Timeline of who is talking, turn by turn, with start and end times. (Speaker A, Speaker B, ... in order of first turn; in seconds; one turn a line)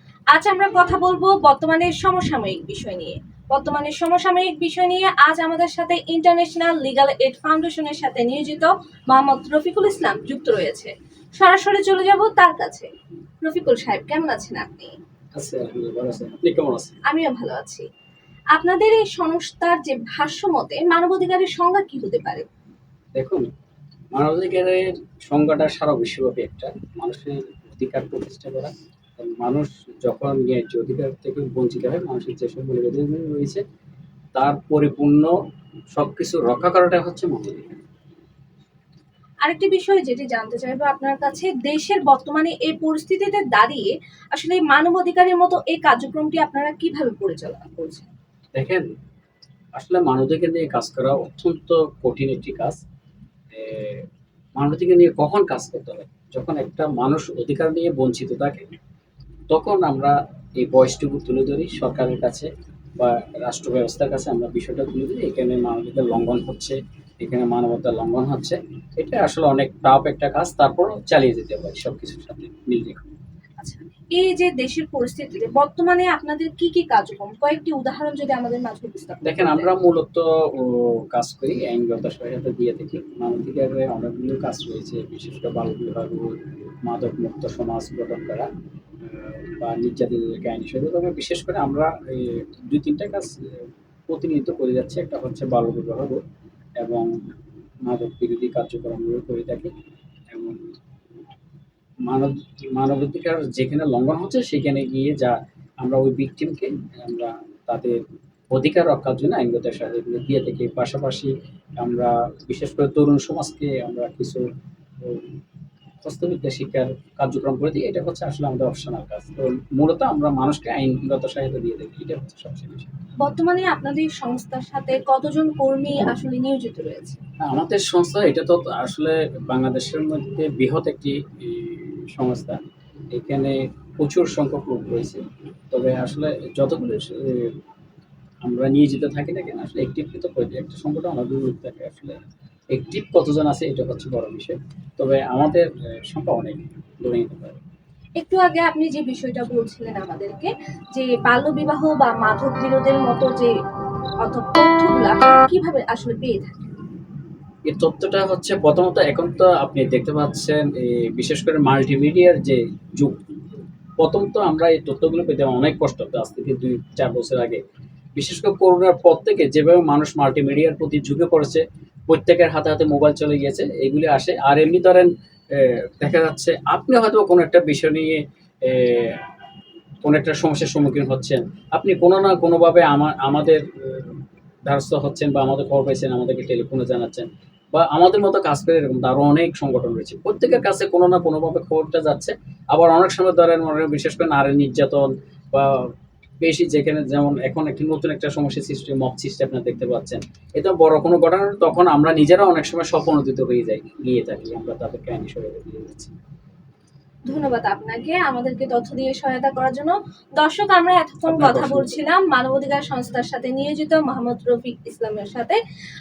Speaker A: 0.3-12.9
Speaker A: 13.4-14.9
Speaker B: 15.3-17.0
Speaker A: 17.1-17.9
Speaker A: 18.5-22.4
Speaker B: 23.1-23.5
Speaker B: 24.1-33.6
Speaker B: 34.3-35.3
Speaker B: 35.9-37.8
Speaker A: 39.4-48.1
Speaker B: 48.5-48.9
Speaker B: 49.8-52.8
Speaker B: 53.5-58.6
Speaker B: 59.5-73.1
Speaker A: 73.6-79.7
Speaker B: 79.2-88.5
Speaker B: 89.0-96.2
Speaker B: 96.8-97.1
Speaker B: 97.8-99.7
Speaker B: 100.3-100.7
Speaker B: 102.0-108.0
Speaker B: 108.5-114.5
Speaker B: 115.0-115.3
Speaker B: 116.0-122.9
Speaker A: 123.2-127.2
Speaker B: 127.4-132.6
Speaker B: 133.1-137.6
Speaker B: 138.4-142.2
Speaker B: 142.7-147.6
Speaker A: 148.2-153.5
Speaker A: 154.2-156.7
Speaker B: 157.7-163.4
Speaker B: 164.0-167.6
Speaker B: 168.2-179.2
Speaker B: 180.0-195.9
Speaker B: 196.4-206.1
Speaker A: 207.3-215.6
Speaker B: 211.2-211.9